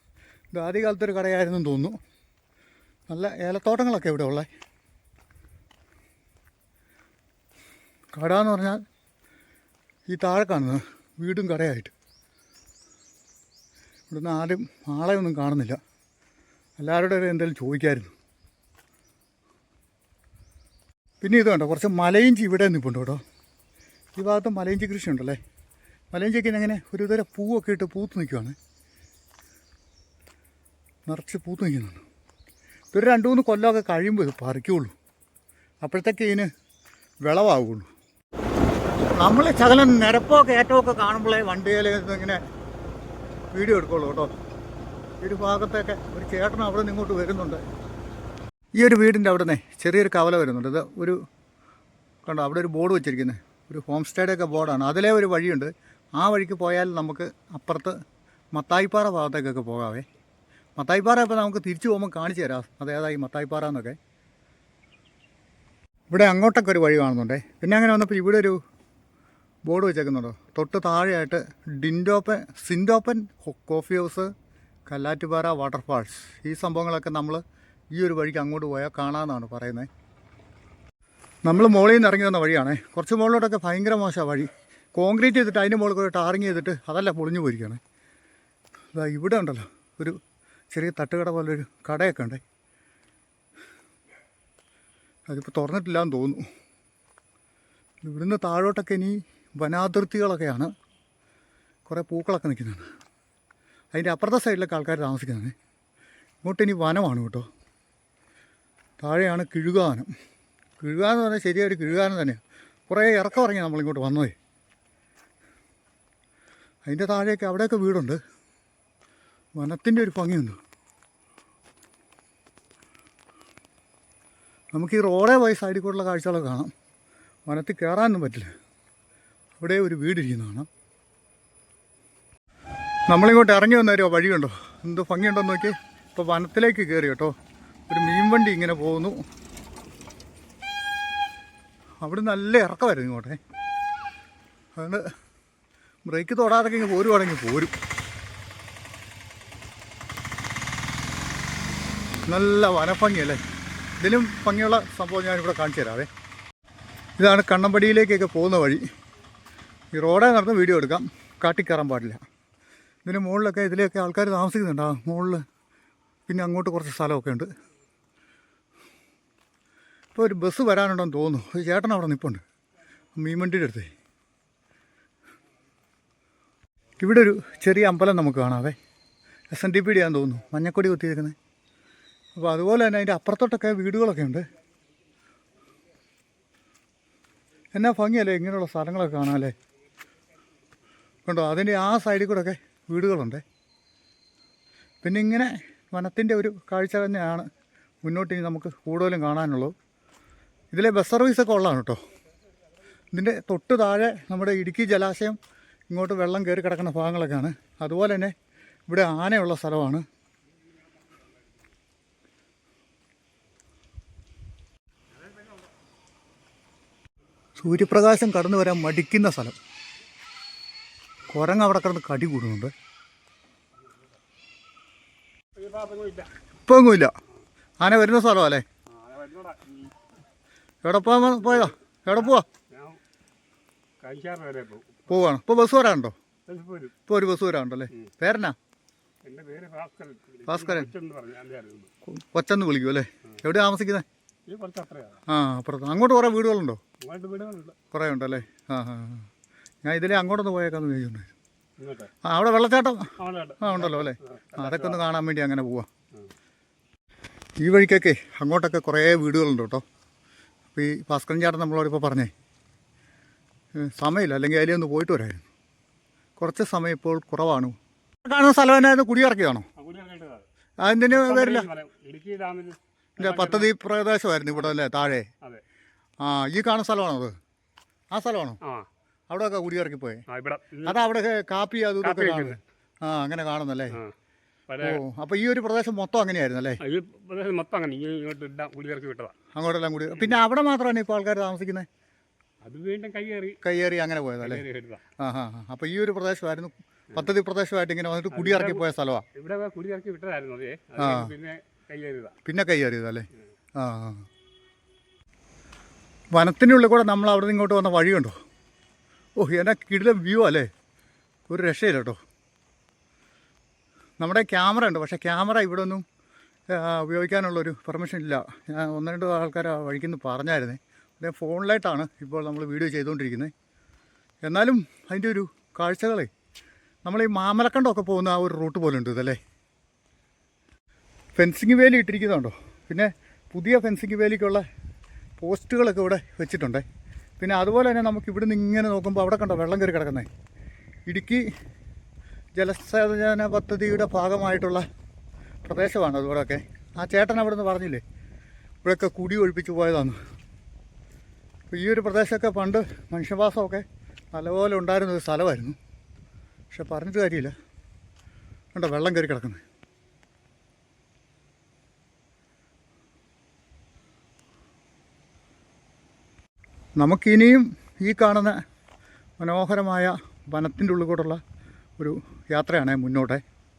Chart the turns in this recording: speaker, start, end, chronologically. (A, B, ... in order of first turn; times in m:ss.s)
0:00.5-0:02.0 A
0:03.1-0:04.5 A
0:08.1-0:08.8 A
0:10.1-0:11.9 A
0:14.1-0:15.8 A
0:16.8-0:18.1 A
0:21.2-0:23.2 A
0:24.2-0:25.4 A
0:26.1-0:28.6 A
0:31.1-0:32.0 A
0:32.9-0:34.9 A
0:35.8-0:36.5 A
0:37.2-0:37.9 A
0:39.2-0:42.4 A
0:43.5-0:44.3 A
0:45.2-0:47.6 A
0:48.8-0:51.2 A
0:52.2-0:57.9 A
0:58.5-1:00.0 A
1:00.8-1:04.0 A
1:06.1-1:08.6 A
1:09.6-1:14.3 A
1:14.9-1:17.4 A
1:17.9-1:19.9 A
1:21.4-1:27.8 A
1:28.9-1:30.2 A
1:30.7-1:32.4 A
1:35.3-1:36.4 A
1:38.0-1:40.7 A
1:41.9-1:42.8 A
1:43.9-1:45.5 A
1:46.4-1:47.4 A
1:49.0-1:50.1 A
1:50.8-1:54.3 A
1:56.9-1:58.2 A
1:59.6-2:00.6 A
2:04.7-2:06.7 A
2:07.5-2:08.5 A
2:09.6-2:10.7 A
2:13.1-2:17.3 A
2:17.9-2:19.2 A
2:22.0-2:23.4 A
2:24.8-2:25.1 A
2:26.1-2:27.7 A
2:32.3-2:33.4 A
2:34.0-2:36.1 A
2:37.2-2:38.8 A
2:39.9-2:42.2 A
2:43.0-2:45.4 A
2:46.3-2:47.5 A
2:50.1-2:52.4 A
2:53.2-2:53.9 A
2:57.0-2:58.8 A
2:59.5-3:01.3 A
3:02.4-3:04.4 A
3:07.8-3:09.5 A
3:11.2-3:13.4 A
3:15.0-3:17.4 A
3:18.0-3:19.7 A
3:20.7-3:22.0 A
3:23.1-3:25.4 A
3:25.9-3:28.3 A
3:28.9-3:30.0 A
3:37.6-3:39.6 A
3:41.3-3:42.7 A
3:45.6-3:46.3 B
3:46.7-3:47.1 A
3:47.8-3:48.6 A
3:48.9-3:49.9 B
3:50.8-3:52.4 A
3:52.2-3:53.0 B
3:54.0-3:55.1 B
3:55.1-3:56.1 A
3:56.5-3:56.9 B
3:57.1-3:58.6 A
3:59.2-4:01.9 B
4:00.5-4:00.9 A
4:02.1-4:04.0 A
4:04.5-4:05.2 B
4:05.3-4:06.8 A
4:07.0-4:07.7 B
4:07.9-4:09.2 A
4:09.8-4:11.3 A
4:11.8-4:12.1 B
4:12.2-4:15.9 A
4:13.2-4:15.0 B
4:17.6-4:19.8 A
4:20.7-4:22.3 A
4:23.8-4:25.4 A
4:26.4-4:27.7 A
4:28.2-4:29.6 A
4:29.8-4:30.4 B
4:30.8-4:31.7 A
4:31.1-4:33.7 B
4:33.2-4:35.3 A
4:36.2-4:37.3 A
4:38.1-4:38.6 A
4:39.3-4:40.2 A
4:40.3-4:40.9 B
4:40.8-4:44.0 A
4:42.0-4:42.6 B
4:44.7-4:45.0 B
4:44.8-4:46.8 A
4:46.8-4:49.3 B
4:49.6-4:51.9 A
4:52.6-4:53.6 B
4:53.6-4:54.6 A
4:54.4-4:55.0 B
4:55.2-4:59.2 A
4:58.3-5:02.3 B
5:01.0-5:01.3 A
5:02.4-5:04.2 A
5:06.3-5:08.3 A
5:09.4-5:10.7 A
5:11.5-5:12.2 A
5:14.2-5:16.0 A
5:16.7-5:23.5 A
5:24.4-5:26.3 A
5:27.0-5:29.4 A
5:31.4-5:34.6 A
5:35.4-5:36.8 A
5:37.4-5:40.3 A
5:41.1-5:41.4 A
5:42.6-5:44.8 A
5:45.6-5:48.0 A
5:48.8-5:50.2 A
5:51.7-5:55.8 A
5:56.7-5:57.5 A
5:58.7-5:59.6 A
6:07.0-6:08.6 A
6:09.4-6:11.4 A
6:12.0-6:13.4 A